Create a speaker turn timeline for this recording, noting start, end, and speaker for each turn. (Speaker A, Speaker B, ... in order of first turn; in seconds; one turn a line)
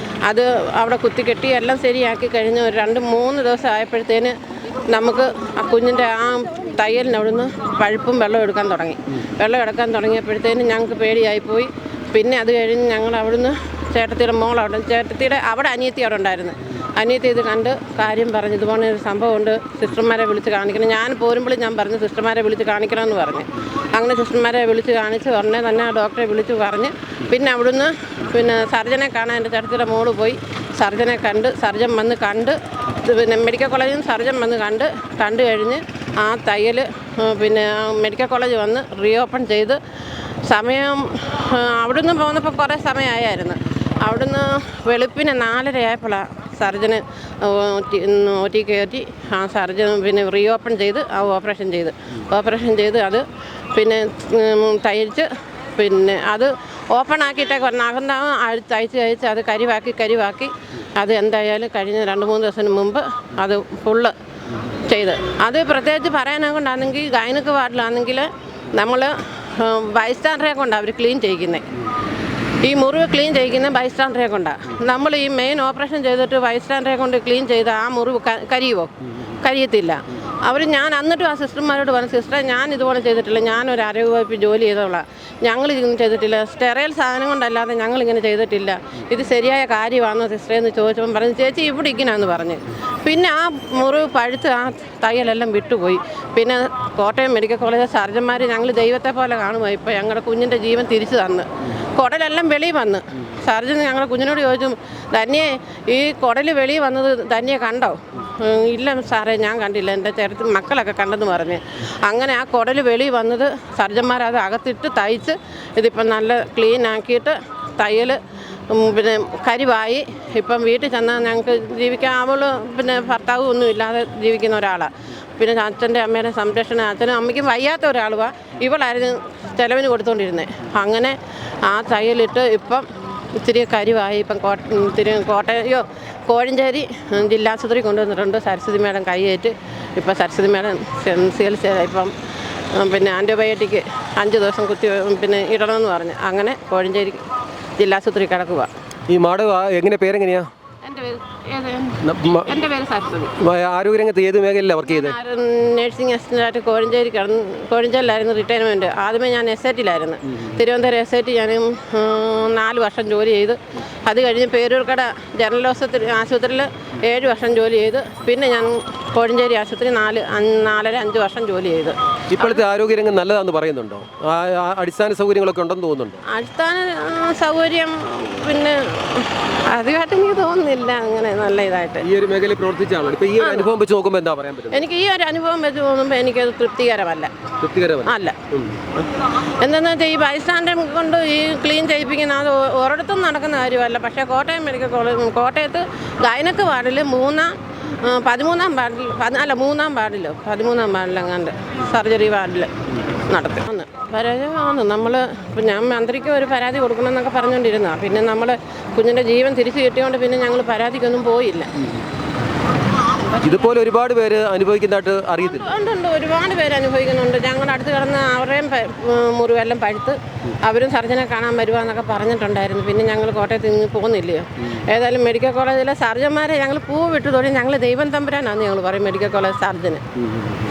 Speaker A: 0.2-39.8
Speaker A: 40.4-64.1
Speaker A: 64.7-71.7
Speaker A: 72.6-142.1
Speaker A: 142.7-147.2
Speaker A: 147.8-148.7
Speaker B: 149.1-150.5
Speaker A: 150.8-153.3
Speaker B: 152.0-152.5
Speaker B: 153.4-155.2
Speaker A: 154.8-172.6
Speaker B: 172.3-176.2
Speaker A: 176.2-182.1
Speaker B: 182.0-184.8
Speaker A: 183.4-183.7
Speaker A: 184.7-187.3
Speaker B: 187.6-188.8
Speaker A: 188.0-211.7
Speaker B: 213.4-215.7
Speaker A: 215.4-230.0